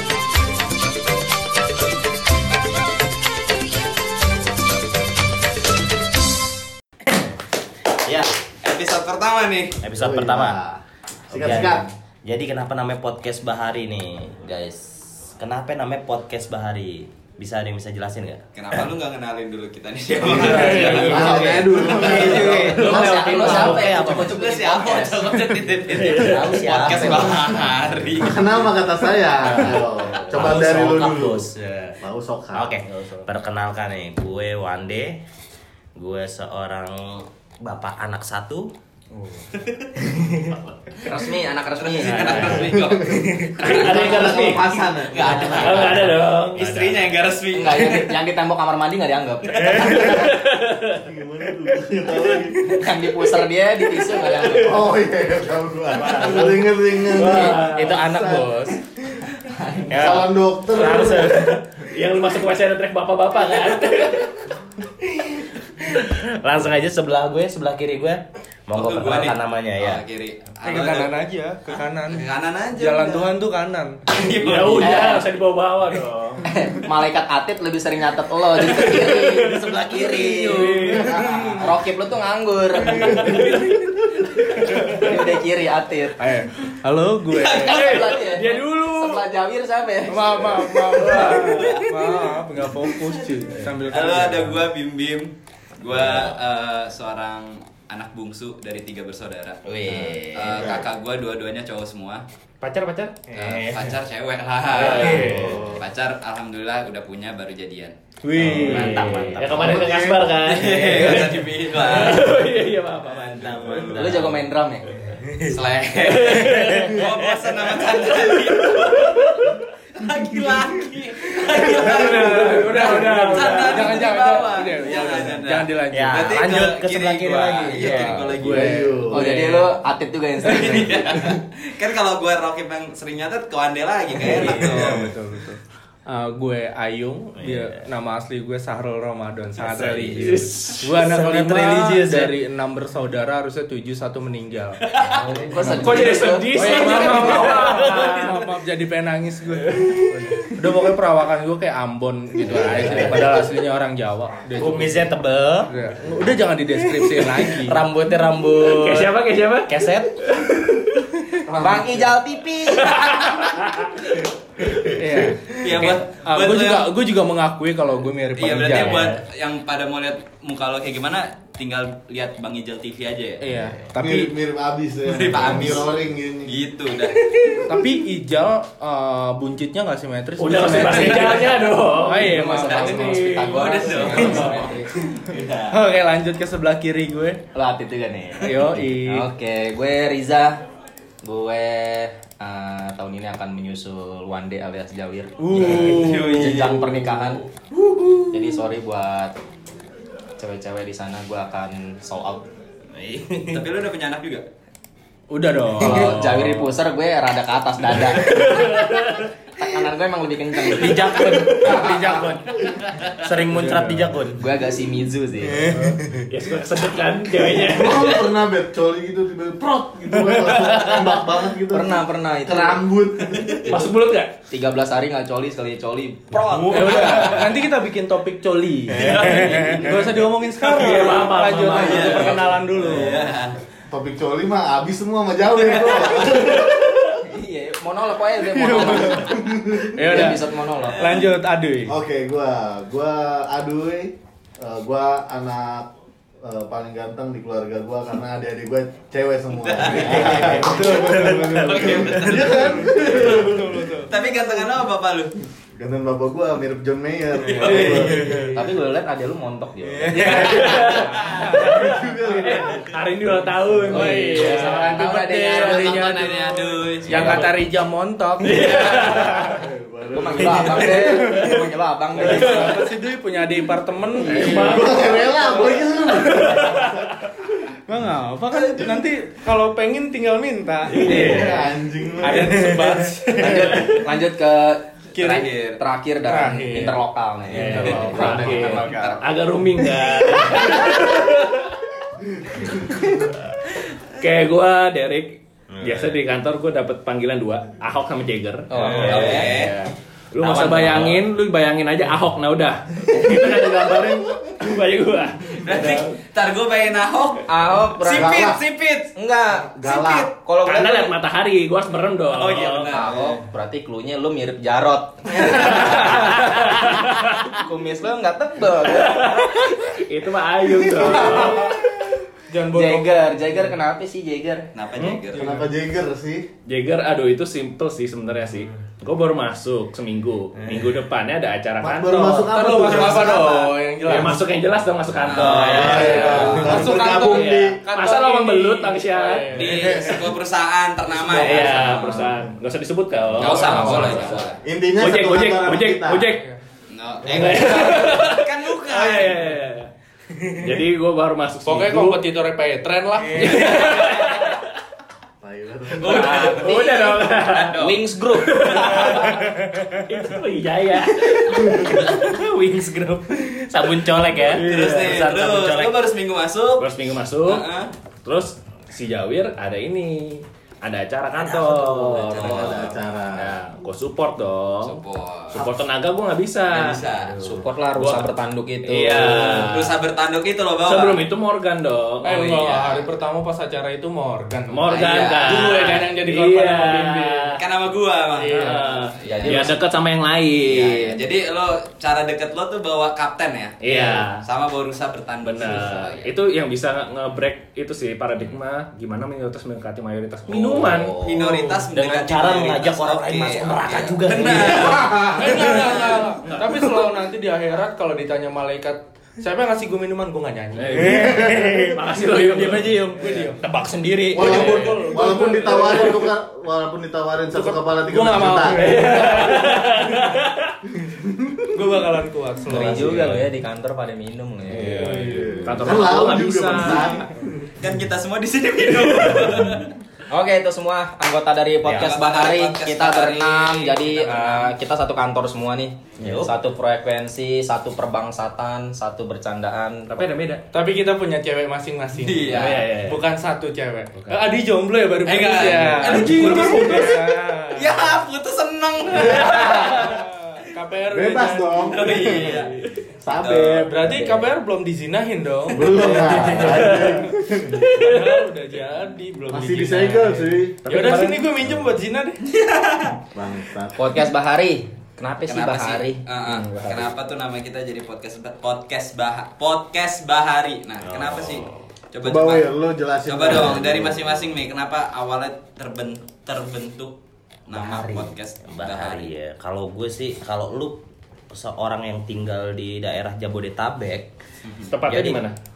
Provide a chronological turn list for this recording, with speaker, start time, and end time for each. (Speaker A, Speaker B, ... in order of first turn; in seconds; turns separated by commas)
Speaker A: 8.1-8.3, Speaker B: 8.6-9.8, Speaker A: 9.8-10.6, Speaker C: 9.9-11.9, Speaker A: 11.3-18.9, Speaker B: 18.5-22.9, Speaker C: 20.2-23.8, Speaker D: 20.5-25.4, Speaker A: 20.6-21.3, Speaker A: 21.8-24.4, Speaker E: 23.0-23.6, Speaker B: 24.1-28.4, Speaker A: 25.9-27.8, Speaker E: 25.9-26.5, Speaker C: 28.1-31.5, Speaker A: 30.3-32.0, Speaker C: 32.0-32.8, Speaker A: 32.5-35.2, Speaker A: 36.0-38.7, Speaker B: 39.5-39.9, Speaker D: 41.0-42.6, Speaker B: 41.7-48.2, Speaker E: 42.0-42.9, Speaker C: 42.4-46.1, Speaker E: 43.6-47.1, Speaker D: 47.5-49.8, Speaker E: 49.6-51.0, Speaker C: 49.7-50.3, Speaker C: 51.0-53.3, Speaker D: 52.6-54.9, Speaker C: 54.5-58.9, Speaker E: 56.0-56.5, Speaker E: 57.0-58.1, Speaker D: 57.5-58.7, Speaker F: 58.1-58.5, Speaker A: 59.9-60.3, Speaker C: 59.9-61.5, Speaker E: 60.7-64.4, Speaker A: 60.9-61.5, Speaker A: 65.8-70.0, Speaker B: 68.7-71.2, Speaker F: 70.6-74.0, Speaker B: 71.9-73.3, Speaker B: 74.1-75.1, Speaker E: 74.4-76.3, Speaker D: 74.8-75.2, Speaker C: 75.9-76.5, Speaker D: 76.5-83.5, Speaker E: 78.7-81.1, Speaker F: 79.9-81.7, Speaker C: 80.8-81.6, Speaker E: 83.0-83.9, Speaker F: 83.3-83.6, Speaker F: 84.6-85.1, Speaker D: 84.8-86.2, Speaker F: 86.2-87.9, Speaker B: 87.4-88.3, Speaker D: 87.4-91.4, Speaker E: 87.7-89.2, Speaker F: 90.1-94.7, Speaker B: 90.9-92.2, Speaker E: 90.9-91.9, Speaker B: 93.8-102.2, Speaker A: 95.9-96.3, Speaker D: 99.7-100.6, Speaker C: 100.5-100.8, Speaker E: 102.6-103.6, Speaker B: 103.3-108.0, Speaker E: 104.7-105.7, Speaker A: 104.8-105.5, Speaker C: 104.8-105.8, Speaker E: 108.2-113.6, Speaker A: 108.4-109.9, Speaker B: 108.6-109.0, Speaker C: 109.4-110.4, Speaker B: 110.4-112.3, Speaker B: 113.1-114.2, Speaker A: 113.2-114.4, Speaker D: 113.9-114.9, Speaker B: 115.5-119.3, Speaker E: 116.0-117.0, Speaker A: 116.6-117.2, Speaker E: 117.9-119.5, Speaker B: 120.0-128.8, Speaker C: 121.5-122.6, Speaker E: 121.9-124.0, Speaker F: 122.1-126.4, Speaker A: 125.9-128.0, Speaker F: 127.7-129.7, Speaker C: 128.4-129.3, Speaker D: 129.1-130.9, Speaker B: 130.5-135.1, Speaker D: 134.2-134.8, Speaker F: 134.5-144.8, Speaker A: 137.4-137.7, Speaker A: 139.6-140.2, Speaker E: 139.8-141.1, Speaker A: 141.2-142.3, Speaker B: 145.0-146.0, Speaker D: 145.0-147.5, Speaker F: 145.6-149.8, Speaker E: 145.9-148.4, Speaker E: 149.7-150.5, Speaker F: 150.6-155.1, Speaker A: 152.7-153.2, Speaker D: 152.8-153.3, Speaker A: 154.6-155.7, Speaker F: 155.7-157.8, Speaker A: 157.0-159.1, Speaker E: 158.6-159.7, Speaker A: 159.7-160.1, Speaker E: 160.2-161.3, Speaker D: 161.6-163.0, Speaker F: 161.7-162.2, Speaker E: 162.7-165.0, Speaker F: 165.0-169.1, Speaker B: 165.6-166.9, Speaker B: 168.3-173.4, Speaker E: 168.8-169.2, Speaker F: 173.4-174.4, Speaker C: 173.9-176.6, Speaker B: 175.1-177.3, Speaker F: 175.4-175.7, Speaker F: 177.7-181.4, Speaker E: 180.4-183.5, Speaker B: 180.6-181.6, Speaker F: 182.0-184.7, Speaker D: 182.2-184.9, Speaker B: 182.6-185.8, Speaker F: 185.7-187.4, Speaker D: 187.5-190.6, Speaker F: 188.4-189.3, Speaker D: 191.2-197.4, Speaker F: 195.4-196.7, Speaker B: 195.6-196.9, Speaker D: 198.3-199.4, Speaker D: 200.4-202.4, Speaker A: 203.0-203.7, Speaker B: 203.5-204.4, Speaker F: 205.3-206.5, Speaker D: 205.8-208.8, Speaker E: 208.1-209.3, Speaker D: 209.6-211.1, Speaker A: 210.8-212.2, Speaker E: 211.5-211.7, Speaker F: 211.7-212.4, Speaker C: 211.7-212.4, Speaker A: 213.1-214.4, Speaker F: 213.5-214.1, Speaker D: 214.4-215.8, Speaker C: 215.6-216.2, Speaker E: 215.9-218.3, Speaker C: 217.3-223.9, Speaker E: 220.5-221.1, Speaker D: 221.7-222.8, Speaker E: 223.7-224.3, Speaker D: 224.5-227.5, Speaker F: 226.5-233.2, Speaker B: 227.0-227.5, Speaker B: 228.9-230.9, Speaker D: 229.1-230.1, Speaker E: 230.7-232.5, Speaker B: 231.7-233.6, Speaker C: 232.8-233.4, Speaker C: 233.9-237.2, Speaker B: 235.7-236.7, Speaker D: 237.3-239.3, Speaker F: 238.4-239.3, Speaker C: 239.1-240.1, Speaker F: 240.0-240.4, Speaker D: 240.1-241.0, Speaker B: 240.8-241.3, Speaker F: 241.0-242.0, Speaker C: 241.9-245.9, Speaker C: 246.4-254.5, Speaker B: 249.5-250.5, Speaker A: 250.0-252.5, Speaker F: 250.6-251.7, Speaker B: 251.5-253.5, Speaker F: 252.2-254.2, Speaker B: 254.1-255.4, Speaker C: 255.8-258.5, Speaker B: 257.5-258.0, Speaker F: 257.6-258.4, Speaker D: 258.1-260.8, Speaker F: 260.0-262.6, Speaker B: 260.3-261.4, Speaker E: 260.5-264.9, Speaker C: 261.6-262.9, Speaker F: 263.9-269.4, Speaker D: 263.9-266.1, Speaker B: 265.5-267.4, Speaker E: 267.1-267.6, Speaker E: 268.4-269.6, Speaker C: 268.6-271.0, Speaker D: 270.1-272.8, Speaker E: 270.4-271.6, Speaker F: 271.0-271.4, Speaker F: 272.1-276.5, Speaker E: 272.2-272.7, Speaker C: 274.2-276.9, Speaker E: 274.2-275.4, Speaker E: 276.2-277.3, Speaker F: 277.9-284.0, Speaker B: 278.5-279.0, Speaker E: 280.9-281.6, Speaker C: 281.0-283.6, Speaker D: 283.4-289.2, Speaker B: 285.1-285.8, Speaker F: 286.2-287.0, Speaker E: 287.5-291.7, Speaker F: 287.6-288.8, Speaker B: 287.7-289.2, Speaker E: 292.6-293.3, Speaker E: 294.2-306.1, Speaker D: 298.7-299.4, Speaker B: 298.9-299.9, Speaker A: 298.9-299.5, Speaker B: 300.4-301.2, Speaker A: 300.6-301.0, Speaker B: 305.6-309.1, Speaker D: 307.5-308.5, Speaker C: 308.1-308.6, Speaker D: 309.1-311.1, Speaker C: 309.8-310.3, Speaker B: 309.8-310.3, Speaker E: 310.6-313.0, Speaker B: 312.3-313.3, Speaker D: 312.8-316.8, Speaker E: 315.9-317.6, Speaker D: 317.6-319.3, Speaker E: 318.9-321.8, Speaker F: 320.8-321.8, Speaker F: 322.5-323.6, Speaker D: 322.7-324.7, Speaker B: 324.7-325.5, Speaker F: 325.3-325.7, Speaker C: 325.4-326.5, Speaker E: 326.7-332.5, Speaker C: 331.8-333.8, Speaker F: 332.1-334.4, Speaker B: 332.9-333.2, Speaker E: 334.1-340.0, Speaker B: 335.2-337.1, Speaker F: 335.4-340.3, Speaker C: 335.6-337.8, Speaker B: 339.5-342.3, Speaker F: 341.1-341.7, Speaker E: 341.3-346.5, Speaker B: 343.4-344.6, Speaker C: 343.5-346.3, Speaker F: 343.6-344.4, Speaker F: 346.3-346.6, Speaker B: 346.9-349.4, Speaker E: 347.2-349.9, Speaker C: 347.3-347.7, Speaker E: 350.6-352.2, Speaker F: 351.6-354.0, Speaker E: 353.3-354.6, Speaker B: 353.7-354.2, Speaker C: 355.4-356.8, Speaker B: 356.0-358.0, Speaker E: 356.1-357.8, Speaker D: 356.1-357.0, Speaker D: 357.8-358.6, Speaker E: 358.4-362.3, Speaker B: 358.5-359.3, Speaker A: 362.1-366.0, Speaker E: 363.9-364.6, Speaker B: 364.6-367.9, Speaker E: 366.8-367.7, Speaker E: 368.2-375.0, Speaker B: 372.1-372.9, Speaker C: 372.1-373.6, Speaker B: 374.8-375.7, Speaker E: 375.5-377.0, Speaker B: 376.7-377.4, Speaker D: 377.4-379.6, Speaker E: 377.9-378.3, Speaker E: 378.9-380.0, Speaker B: 379.2-381.2, Speaker E: 380.9-382.3, Speaker F: 382.2-384.9, Speaker B: 382.3-383.1, Speaker E: 384.7-387.6, Speaker B: 384.9-385.8, Speaker F: 385.4-387.5, Speaker B: 387.6-389.7, Speaker F: 388.4-388.9, Speaker E: 388.5-391.2, Speaker D: 389.2-389.8, Speaker B: 390.7-396.3, Speaker E: 393.8-394.4, Speaker E: 395.4-401.2, Speaker D: 400.8-401.4, Speaker B: 401.2-406.4, Speaker F: 401.3-401.9, Speaker A: 401.9-405.8, Speaker F: 404.8-411.2, Speaker E: 406.4-406.9, Speaker E: 410.8-413.3, Speaker A: 411.0-411.8, Speaker C: 411.2-412.0, Speaker A: 412.6-415.2, Speaker F: 412.9-413.6, Speaker F: 414.3-416.2, Speaker C: 414.3-419.1, Speaker E: 414.4-414.9, Speaker F: 417.5-419.9, Speaker E: 418.8-420.7, Speaker C: 421.0-421.8, Speaker F: 421.7-423.2, Speaker D: 422.7-425.2, Speaker A: 422.7-423.4, Speaker E: 424.7-427.2, Speaker F: 424.9-425.9, Speaker C: 425.2-427.7, Speaker B: 427.8-429.9, Speaker D: 430.3-440.3, Speaker A: 431.8-432.1, Speaker B: 432.0-434.7, Speaker A: 436.2-436.5, Speaker E: 440.1-440.6, Speaker F: 440.7-447.9, Speaker B: 442.2-442.8, Speaker D: 442.5-442.8, Speaker E: 442.5-443.2, Speaker E: 444.1-444.5, Speaker B: 445.2-450.1, Speaker C: 449.1-449.9, Speaker F: 449.3-452.5, Speaker E: 449.8-450.1, Speaker C: 451.1-452.7, Speaker B: 451.9-452.7, Speaker C: 453.2-454.5, Speaker B: 453.3-453.8, Speaker F: 453.7-457.2, Speaker C: 455.7-458.0, Speaker E: 456.4-457.2, Speaker E: 457.8-458.4, Speaker F: 458.0-462.4, Speaker C: 459.5-460.8, Speaker E: 460.8-461.6, Speaker B: 462.5-463.2, Speaker C: 463.3-464.0, Speaker D: 464.0-466.2, Speaker B: 465.4-472.7, Speaker A: 471.0-471.9, Speaker C: 472.2-474.5, Speaker B: 473.2-477.1, Speaker B: 477.7-479.3, Speaker A: 477.7-481.0, Speaker A: 481.5-484.3, Speaker E: 484.9-485.5, Speaker A: 485.1-485.4